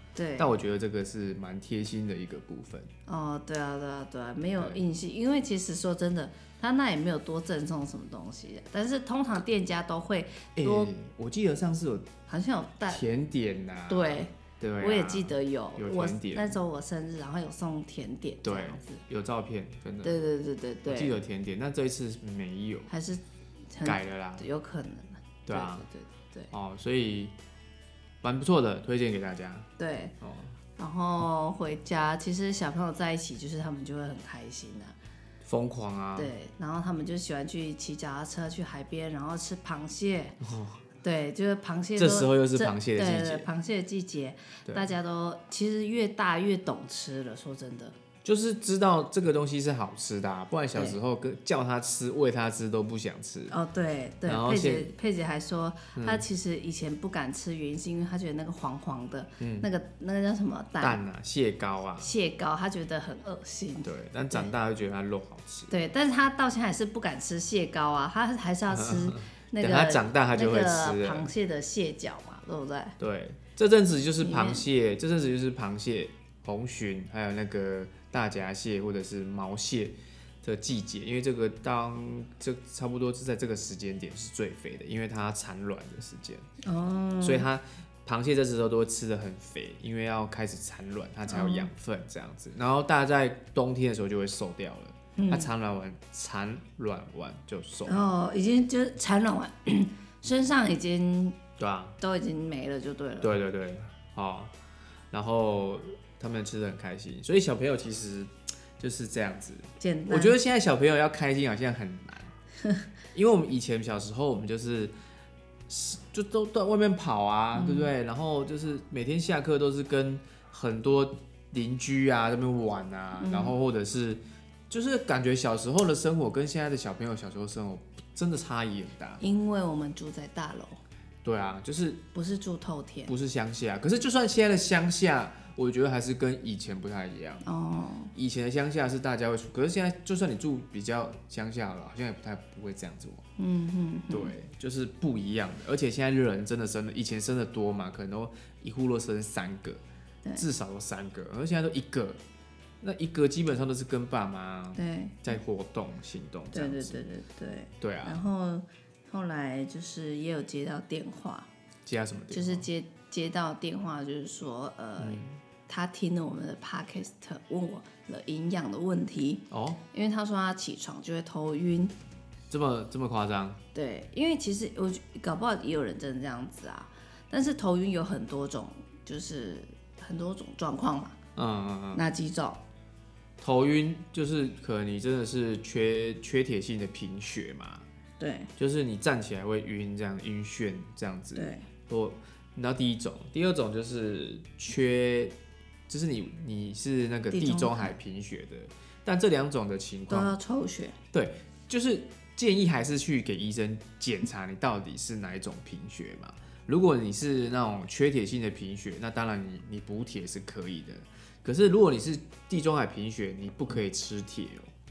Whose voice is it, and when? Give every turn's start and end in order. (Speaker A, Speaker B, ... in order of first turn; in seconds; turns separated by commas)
Speaker A: 0.1-0.6, Speaker B: 0.4-2.9, Speaker A: 3.1-10.9, Speaker B: 4.6-4.8, Speaker B: 10.6-12.1, Speaker A: 12.3-13.1, Speaker B: 12.9-16.6, Speaker A: 13.9-19.0, Speaker B: 18.4-20.2, Speaker A: 20.0-21.2, Speaker B: 20.9-22.9, Speaker A: 22.9-23.2, Speaker A: 23.7-26.5, Speaker B: 23.8-24.5, Speaker B: 25.5-25.9, Speaker B: 26.5-27.3, Speaker B: 28.2-29.7, Speaker A: 29.8-30.1, Speaker B: 30.2-30.6, Speaker A: 30.8-35.0, Speaker B: 35.4-36.3, Speaker A: 36.2-40.4, Speaker B: 40.4-40.8, Speaker A: 41.0-48.0, Speaker B: 42.0-43.5, Speaker B: 44.7-44.9, Speaker B: 48.2-53.6, Speaker A: 53.5-61.0, Speaker B: 54.3-54.9, Speaker B: 56.0-56.2, Speaker B: 59.4-59.7, Speaker B: 60.8-62.1, Speaker A: 62.0-64.5, Speaker B: 63.8-65.7, Speaker A: 65.7-73.0, Speaker B: 68.7-71.3, Speaker B: 73.0-86.5, Speaker A: 74.2-74.7, Speaker A: 86.6-87.5, Speaker B: 87.2-98.1, Speaker A: 91.3-91.7, Speaker A: 95.2-95.5, Speaker A: 97.9-101.4, Speaker B: 101.6-102.0, Speaker A: 102.0-103.3, Speaker B: 103.2-104.5, Speaker B: 105.1-112.3, Speaker A: 109.8-110.4, Speaker B: 113.1-114.9, Speaker B: 115.7-129.2, Speaker A: 117.5-117.9, Speaker A: 123.2-123.6, Speaker A: 129.2-130.8, Speaker B: 131.2-132.0, Speaker A: 132.2-133.1, Speaker B: 133.1-137.4, Speaker A: 137.4-138.1, Speaker B: 138.1-143.2, Speaker A: 143.4-144.3, Speaker B: 144.1-149.8, Speaker B: 150.4-152.2, Speaker B: 152.8-157.0, Speaker A: 154.8-155.2, Speaker A: 156.5-161.5, Speaker B: 157.8-158.2, Speaker B: 161.9-162.7, Speaker A: 162.3-171.9, Speaker B: 165.0-165.4, Speaker B: 169.5-169.8, Speaker B: 172.5-173.6, Speaker A: 173.7-181.2, Speaker B: 181.4-182.0, Speaker A: 181.9-182.6, Speaker B: 183.4-187.8, Speaker A: 188.2-188.5, Speaker B: 188.6-195.3, Speaker A: 191.3-191.7, Speaker B: 195.9-200.3, Speaker A: 197.3-197.9, Speaker A: 200.1-201.0, Speaker B: 201.1-214.7